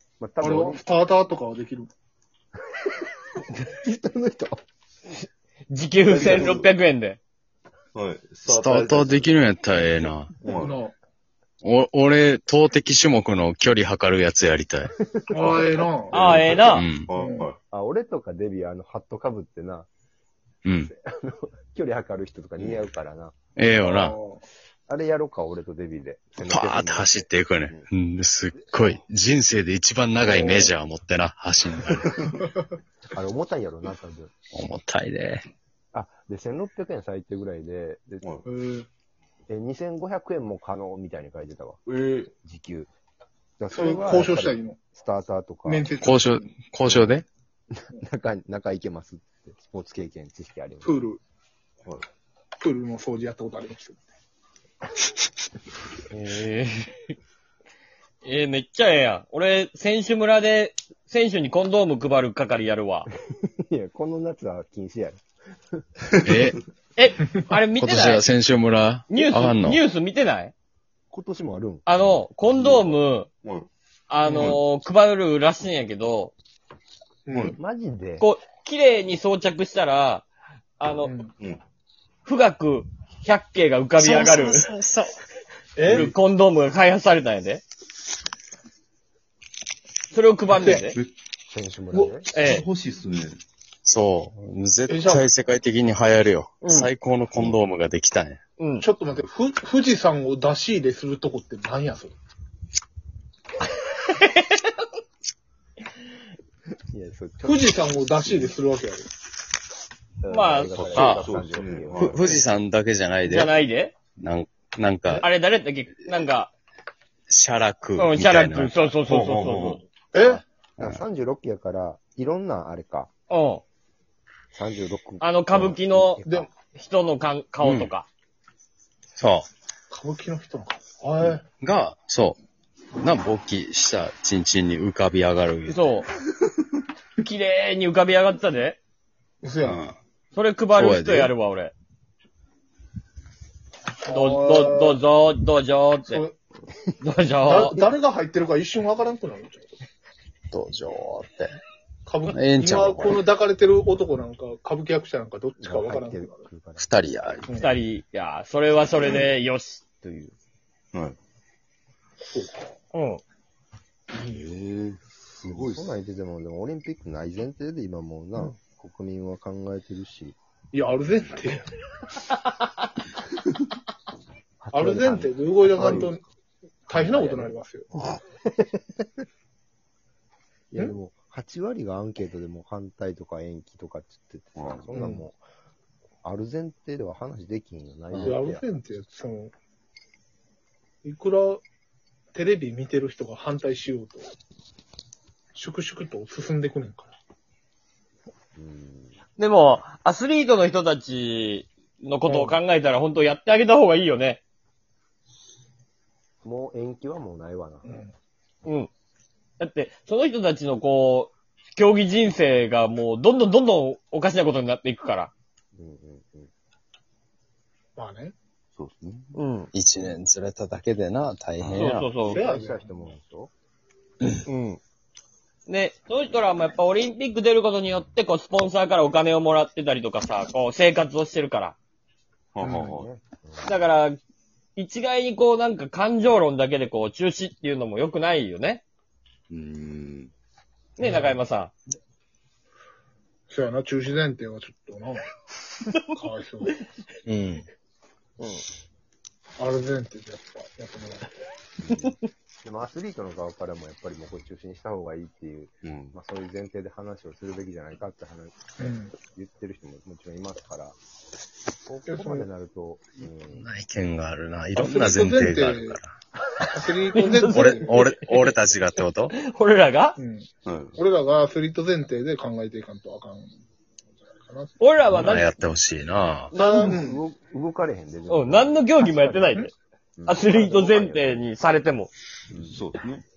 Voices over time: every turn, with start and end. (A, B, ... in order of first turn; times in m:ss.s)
0:00.2-0:00.8 A
0:00.4-0:01.9 B
0:03.6-0:04.6 A
0:05.7-0:07.2 C
0:06.1-0:06.7 D
0:07.9-0:09.9 D
0:08.5-0:10.3 E
0:10.4-0:10.8 D
0:10.5-0:10.9 B
0:11.6-0:14.9 E
0:15.1-0:15.7 A
0:15.3-0:16.4 B
0:16.1-0:16.8 C
0:16.2-0:16.4 D
0:16.6-0:17.1 E
0:17.1-0:17.6 D
0:17.1-0:17.5 B
0:17.7-0:19.9 A
0:20.6-0:20.9 E
0:20.8-0:23.3 A
0:22.6-0:22.8 D
0:23.6-0:24.2 E
0:23.8-0:24.4 B
0:24.9-0:27.9 A
0:26.4-0:32.2 E
0:30.2-0:30.7 B
0:30.3-0:30.7 A
0:33.1-0:34.3 A
0:34.5-0:35.5 E
0:35.9-0:38.3 A
0:38.4-0:38.9 B
0:39.5-0:41.8 A
0:41.9-0:42.3 D
0:42.4-0:42.9 A
0:43.6-0:45.9 A
0:43.7-0:44.8 B
0:45.6-0:46.6 B
0:46.0-0:47.2 E
0:47.7-0:51.0 A
0:50.8-0:51.2 B
0:52.6-0:54.0 B
0:56.1-0:57.1 C
0:58.2-1:03.1 C
1:03.2-1:05.2 A
1:06.2-1:06.6 E
1:07.0-1:08.2 C
1:07.7-1:09.8 E
1:09.1-1:10.5 C
1:11.1-1:12.6 A
1:11.8-1:13.3 C
1:12.5-1:12.8 D
1:13.4-1:13.7 D
1:14.1-1:16.3 C
1:14.2-1:14.6 B
1:17.3-1:17.6 B
1:17.6-1:18.3 A
1:18.2-1:20.2 C
1:20.8-1:21.1 C
1:21.0-1:21.3 B
1:22.2-1:24.7 C
1:24.0-1:25.1 E
1:25.8-1:26.1 B
1:25.8-1:27.6 C
1:30.1-1:31.0 C
1:30.6-1:30.8 B
1:30.7-1:31.1 D
1:31.5-1:32.3 A
1:31.9-1:32.2 B
1:32.3-1:32.6 C
1:32.4-1:33.4 D
1:33.8-1:38.4 E
1:34.9-1:35.3 B
1:36.6-1:36.9 C
1:38.6-1:38.9 C
1:38.8-1:42.1 B
1:44.0-1:44.6 C
1:46.9-1:47.8 A
1:47.4-1:49.1 B
1:50.2-1:52.4 A
1:50.3-1:51.2 C
1:50.8-1:51.3 E
1:51.0-1:52.4 D
1:52.0-1:53.6 E
1:53.2-1:53.9 C
1:54.2-1:55.3 E
1:55.1-1:56.5 C
1:57.3-1:59.0 E
1:58.0-1:59.8 C
1:59.1-1:59.8 D
2:00.1-2:00.4 B
2:00.2-2:01.0 E
2:00.8-2:03.1 A
2:03.3-2:03.6 C
2:04.5-2:06.5 A
2:05.2-2:06.2 C
2:06.7-2:08.1 C
2:07.6-2:07.9 E
2:09.2-2:09.5 E
2:09.9-2:11.4 B
2:11.6-2:12.4 E
2:13.0-2:15.8 E
2:15.7-2:16.1 C
2:17.2-2:18.8 C
2:19.4-2:19.8 B
2:19.6-2:20.0 E
2:20.3-2:21.7 C
2:20.7-2:21.3 E
2:24.0-2:25.0 B
2:24.1-2:26.2 C
2:26.0-2:26.4 B
2:27.0-2:27.9 C
2:27.4-2:29.8 B
2:30.5-2:31.6 E
2:32.0-2:36.4 B
2:32.3-2:33.3 E
2:35.6-2:37.1 A
2:36.8-2:37.5 E
2:37.4-2:37.8 B
2:37.5-2:40.3 C
2:42.3-2:42.7 B
2:42.9-2:43.2 C
2:44.2-2:45.9 D
2:45.4-2:50.4 A
2:50.7-2:51.6 B
2:54.6-2:56.1 A
2:54.7-2:56.2 B
2:56.9-2:57.9 B
2:56.9-2:59.0 A
3:00.7-3:05.4 A
3:04.6-3:04.9 D
3:04.9-3:05.2 B
3:06.2-3:08.6 A
3:08.2-3:09.5 B
3:11.0-3:11.6 B
3:12.3-3:14.3 B
3:15.5-3:17.1 B
3:18.6-3:19.2 A
3:19.4-3:24.4 C
3:22.2-3:22.6 B
3:26.4-3:28.0 A
3:27.8-3:28.1 B
3:28.6-3:28.9 C
3:29.6-3:35.3 C
3:35.7-3:36.5 A
3:38.0-3:38.3 B
3:38.7-3:39.4 D
3:39.3-3:39.7 C
3:39.7-3:42.1 E
3:41.6-3:41.9 D
3:41.7-3:42.4 C
3:42.2-3:43.5 A
3:42.3-3:43.1 B
3:44.4-3:44.8 C
3:45.7-3:51.8 C
3:52.5-3:53.1 D
3:52.6-3:53.8 A
3:53.6-3:54.2 C
3:54.8-3:58.8 C
3:59.5-4:00.3 D
4:01.0-4:01.7 C
4:01.0-4:01.4 B
4:03.5-4:05.2 B
4:06.1-4:06.8 B
4:07.2-4:07.6 E
4:09.6-4:11.3 B
4:11.8-4:21.0 A
4:15.8-4:16.2 D
4:18.8-4:19.1 B
4:21.8-4:23.7 A
4:22.1-4:22.5 B
4:23.5-4:26.1 E
4:24.8-4:26.0 B
4:26.7-4:28.1 B
4:27.1-4:28.5 C
4:27.5-4:29.3 E
4:29.3-4:30.2 C
4:30.2-4:33.5 B
4:30.6-4:31.0 D
4:34.4-4:34.8 B
4:34.8-4:35.6 C
4:35.1-4:36.5 E
4:36.5-4:37.0 C
4:36.5-4:37.2 B
4:36.6-4:39.6 A
4:38.3-4:39.7 C
4:40.2-4:41.5 A
4:40.2-4:42.1 C
4:42.5-4:42.8 A
4:42.6-4:43.2 D